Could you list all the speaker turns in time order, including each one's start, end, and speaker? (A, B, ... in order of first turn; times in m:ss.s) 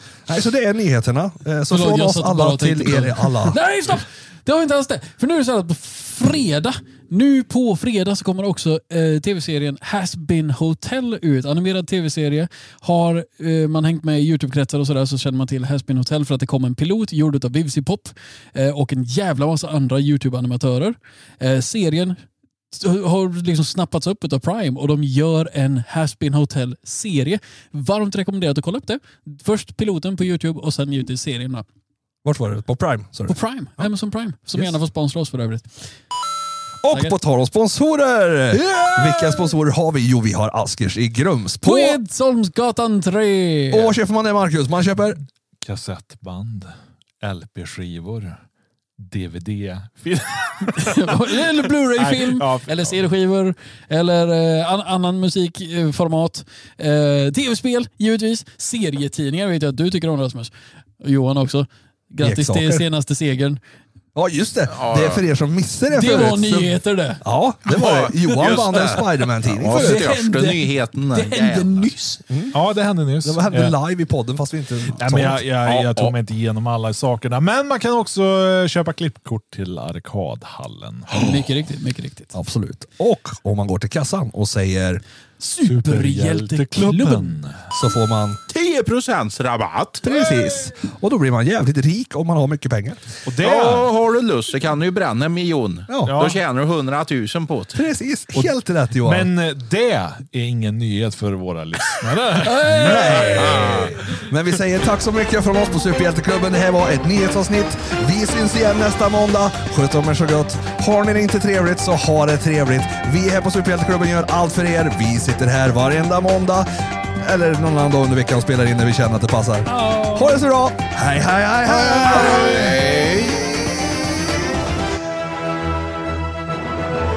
0:00.3-0:03.6 A
0:01.7-0:22.2 B
0:22.7-0:31.6 B
0:32.2-0:33.8 A
0:33.3-0:35.9 B
0:36.8-0:42.0 A
0:38.7-0:39.4 C
0:41.6-0:44.0 B
0:43.7-0:45.2 A
0:45.6-0:48.4 C
0:49.0-0:53.0 C
0:50.7-1:03.6 B
1:02.2-1:02.8 A
1:04.1-1:10.1 A
1:04.7-1:05.2 D
1:05.9-1:07.2 B
1:07.6-1:11.9 D
1:08.5-1:09.1 B
1:09.6-1:12.2 B
1:12.3-1:12.6 A
1:12.5-1:13.7 C
1:13.2-1:15.4 A
1:15.0-1:21.2 C
1:15.6-1:16.1 D
1:21.2-1:22.3 B
1:22.3-1:25.0 A
1:25.4-1:27.3 B
1:25.6-1:27.7 C
1:27.7-1:28.4 A
1:28.5-1:30.1 D
1:30.0-1:33.0 A
1:33.2-1:33.9 C
1:33.4-1:37.8 D
1:35.9-1:36.1 A
1:36.0-1:36.4 C
1:37.7-1:39.3 A
1:38.3-1:43.0 C
1:42.4-1:43.8 B
1:42.7-2:03.8 A
1:43.3-1:44.0 D
1:59.6-2:00.4 B
2:02.0-2:03.4 D